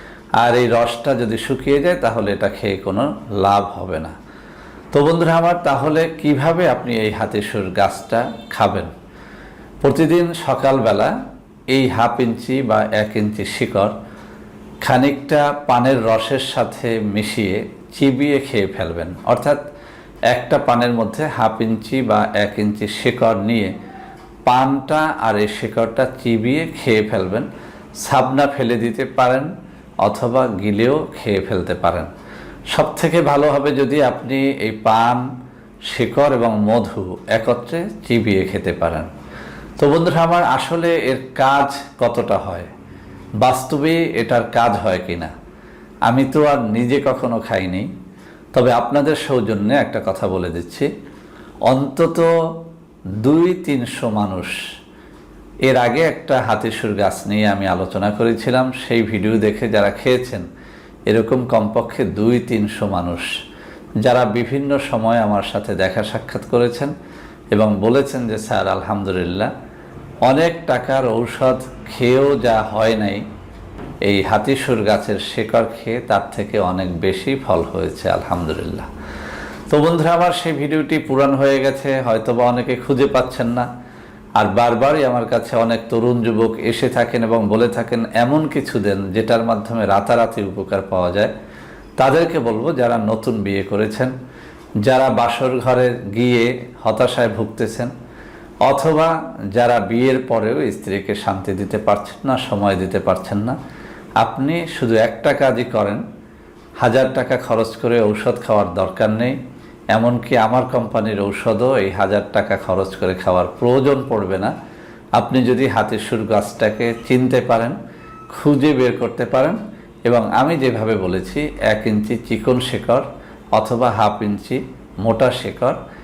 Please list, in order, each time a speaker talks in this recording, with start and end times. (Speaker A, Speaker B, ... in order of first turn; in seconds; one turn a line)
Speaker A: 0.4-4.2
Speaker A: 4.9-8.9
Speaker A: 9.8-11.1
Speaker A: 11.7-13.9
Speaker A: 14.8-19.6
Speaker A: 20.3-23.7
Speaker A: 24.5-27.5
Speaker A: 28.0-29.5
Speaker A: 30.1-32.1
Speaker A: 32.7-35.3
Speaker A: 35.9-39.1
Speaker A: 39.8-42.7
Speaker A: 43.4-45.3
Speaker A: 46.1-47.9
Speaker A: 48.5-50.9
Speaker A: 51.7-52.3
Speaker A: 53.2-54.6
Speaker A: 55.7-60.4
Speaker A: 61.1-63.3
Speaker A: 64.0-66.9
Speaker A: 67.5-69.5
Speaker A: 70.3-73.2
Speaker A: 74.1-78.9
Speaker A: 79.7-83.7
Speaker A: 84.4-91.3
Speaker A: 92.0-94.1
Speaker A: 94.9-97.9
Speaker A: 98.7-103.6
Speaker A: 104.2-106.0
Speaker A: 106.8-109.4
Speaker A: 110.0-114.5
Speaker A: 115.2-117.8
Speaker A: 118.3-125.8